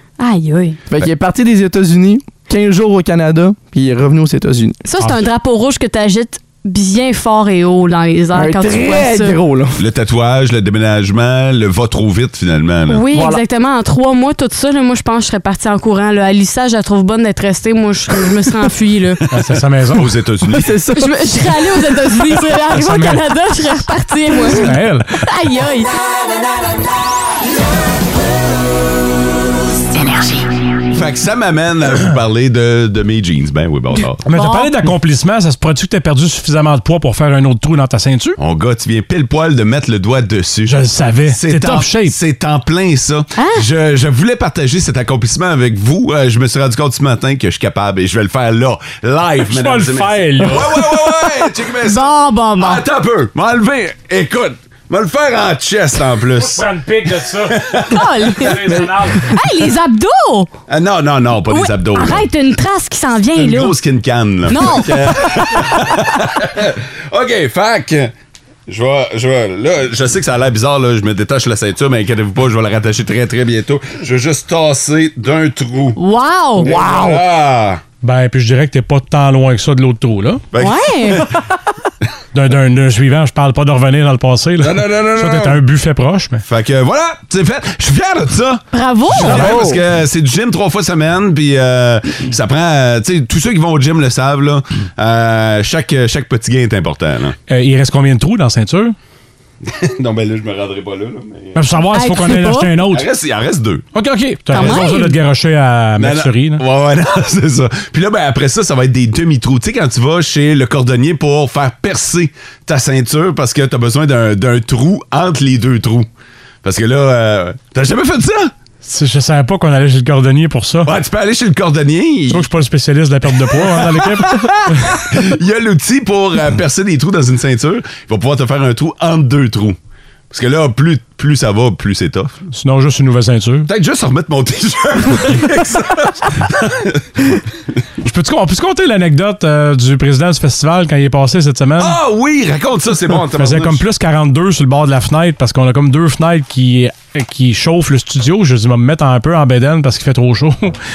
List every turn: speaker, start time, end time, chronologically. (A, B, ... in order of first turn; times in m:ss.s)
0:00.2-0:00.8 A
0:00.9-0:04.8 B
0:04.8-0:09.4 A
0:08.3-0:09.8 B
0:09.8-0:13.0 C
0:12.9-0:19.2 A
0:13.1-0:13.4 B
0:19.3-0:20.1 D
0:19.9-0:20.7 C
0:20.5-0:21.6 B
0:21.0-0:25.9 A
0:22.7-0:23.2 D
0:24.6-0:25.2 D
0:30.9-0:34.2 C
0:34.2-0:38.4 D
0:34.3-0:34.7 A
0:38.4-0:56.7 C
0:40.7-0:42.2 D
0:43.4-0:43.6 A
0:49.4-0:51.0 D
0:51.9-0:52.8 A
0:56.4-0:57.8 D
0:57.5-0:58.8 C
0:57.9-0:58.6 A
0:58.4-0:59.4 D
0:59.2-1:00.5 A
1:00.7-1:02.3 C
1:01.5-1:03.8 A
1:03.3-1:08.1 C
1:04.5-1:05.2 A
1:08.7-1:16.0 C
1:16.0-1:16.7 A
1:16.6-1:17.8 C
1:16.6-1:17.2 B
1:18.0-1:20.4 D
1:20.5-1:21.4 C
1:20.6-1:21.2 A
1:22.3-1:26.4 D
1:24.6-1:25.6 C
1:26.4-1:37.4 C
1:28.7-1:29.6 A
1:29.2-1:29.8 B
1:37.5-1:39.0 D
1:39.6-1:41.6 C
1:41.6-1:43.1 D
1:41.9-1:42.7 A
1:42.9-1:43.8 C
1:43.9-1:46.6 D
1:44.5-1:45.2 A
1:44.6-1:44.8 C
1:46.0-1:56.1 C
1:56.6-1:58.5 C
1:58.8-2:00.9 D
2:00.8-2:02.5 C
2:02.3-2:05.0 D
2:03.5-2:09.8 C
2:10.3-2:12.5 C
2:12.5-2:13.7 D
2:13.7-2:17.4 C
2:18.0-2:22.0 D
2:21.8-2:23.8 C
2:23.4-2:30.8 D